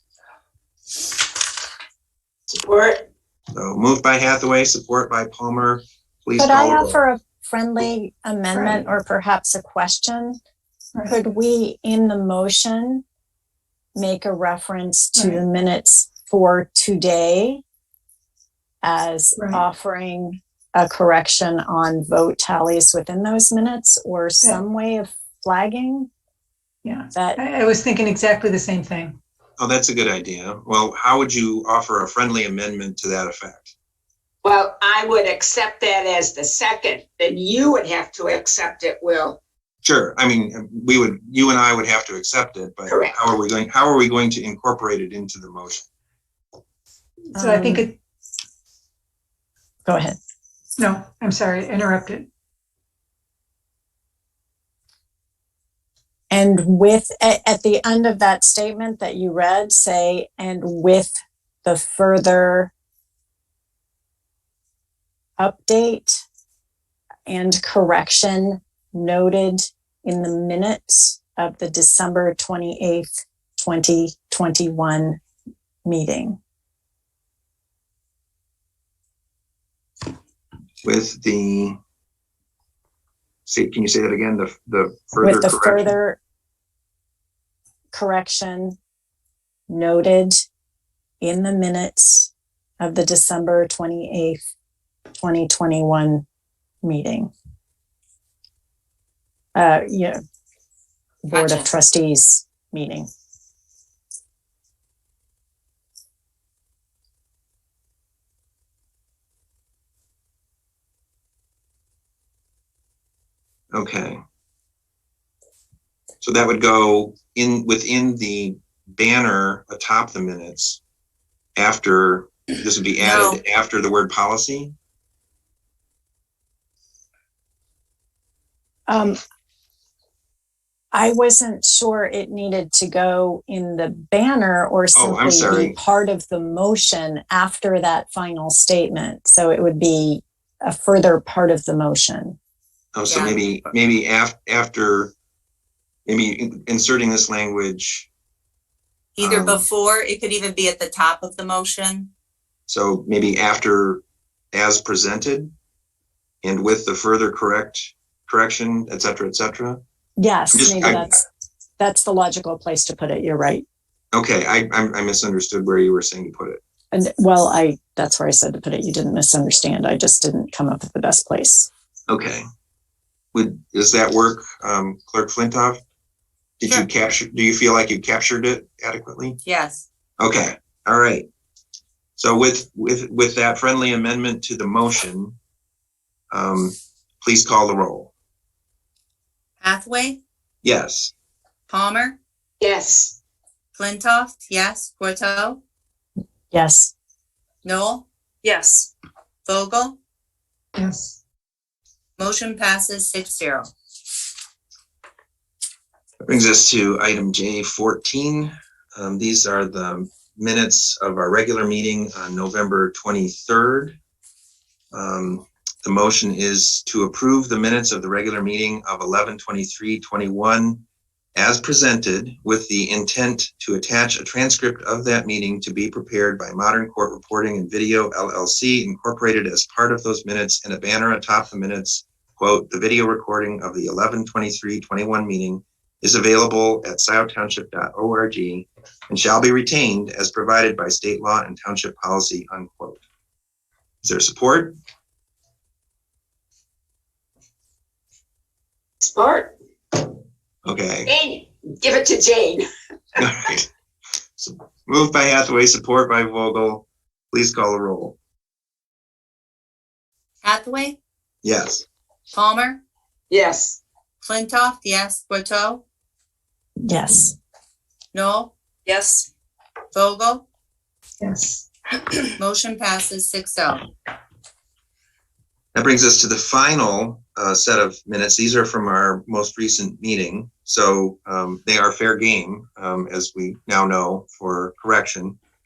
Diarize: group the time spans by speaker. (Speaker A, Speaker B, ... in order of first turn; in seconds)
Speaker A: 2.5-3.1, 34.4-39.4, 42.9-43.2, 192.6-193.2, 249.0-250.1, 251.1-252.7, 263.3-263.8
Speaker B: 3.5-7.0, 29.6-33.7, 39.8-45.9, 80.8-81.8, 83.5-85.9, 113.7-114.2, 116.2-120.8, 121.6-124.7, 134.9-135.7, 142.9-145.1, 146.1-148.1, 149.2-149.6, 152.7-154.0, 154.5-155.5, 156.4-159.8, 160.5-161.1, 164.1-166.6, 172.1-172.4, 173.3-175.8, 176.6-179.4, 180.2-181.2, 182.2-185.4, 186.3-188.1, 190.6-191.1, 206.2-213.9, 214.9-220.8, 221.3-243.0, 244.0-244.8, 250.7-251.1, 253.2-253.7, 254.4-258.2, 261.4-261.9, 275.7-285.4
Speaker C: 6.4-10.4, 11.1-13.0, 13.9-17.6, 18.8-26.1, 27.1-27.4, 47.3-47.9, 49.9-50.2, 56.3-61.1, 61.6-62.7, 65.4-66.2, 67.3-75.2, 75.8-76.4, 85.2-86.2, 87.9-88.8, 89.7-90.4, 91.2-94.4, 95.2-96.2, 96.8-97.3, 99.5-100.2, 101.2-103.1, 128.9-129.2, 130.9-142.4, 160.2-161.2, 161.8-163.6, 166.9-171.7, 196.5-196.9, 266.9-267.4
Speaker D: 8.5-8.8, 15.1-15.4, 19.4-19.6, 26.8-29.2, 47.4-48.0, 50.8-52.3, 200.7-201.2, 271.2-271.6
Speaker E: 101.3-101.7, 123.0-123.4, 143.1-143.4, 149.2-152.1, 179.4-179.8, 189.6-190.2, 191.7-192.2, 193.8-195.6, 197.6-198.1, 199.4-200.0, 202.2-203.7, 260.4-261.0, 262.3-262.8, 264.2-265.8, 268.1-269.2, 269.9-270.4, 272.4-273.9